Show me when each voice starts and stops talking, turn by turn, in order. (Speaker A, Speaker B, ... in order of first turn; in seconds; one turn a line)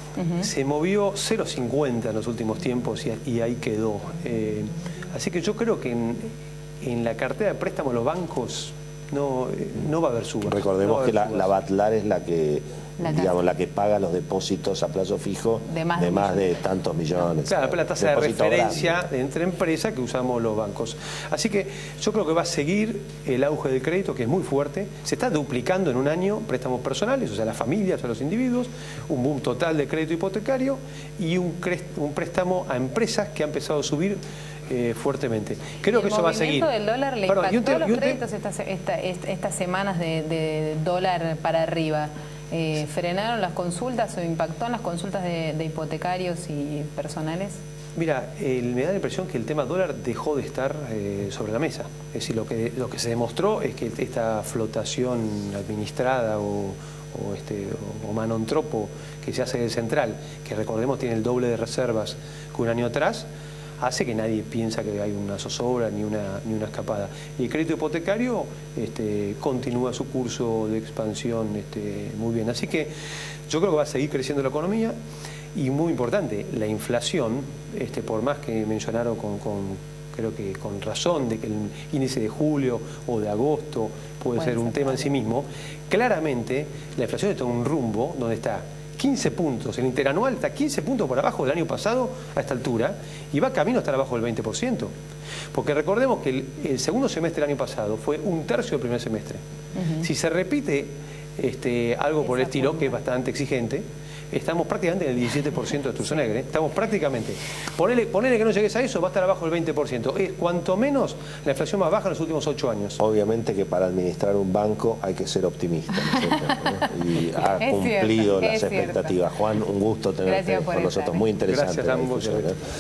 Speaker A: 0.2-0.5
Speaker B: 0.4-11.5
Speaker C: 10.4-19.0
Speaker A: 13.0-13.4
Speaker A: 15.7-16.6
Speaker B: 17.5-36.7
Speaker A: 35.9-47.6
Speaker B: 37.3-38.2
Speaker B: 48.0-63.3
Speaker B: 63.8-72.9
Speaker B: 73.5-75.0
Speaker B: 75.5-94.9
Speaker A: 84.4-85.0
Speaker B: 95.5-99.4
Speaker B: 100.0-113.0
Speaker A: 102.3-102.8
Speaker C: 113.0-122.6
Speaker A: 117.6-119.2
Speaker A: 120.3-121.3
Speaker B: 121.5-122.5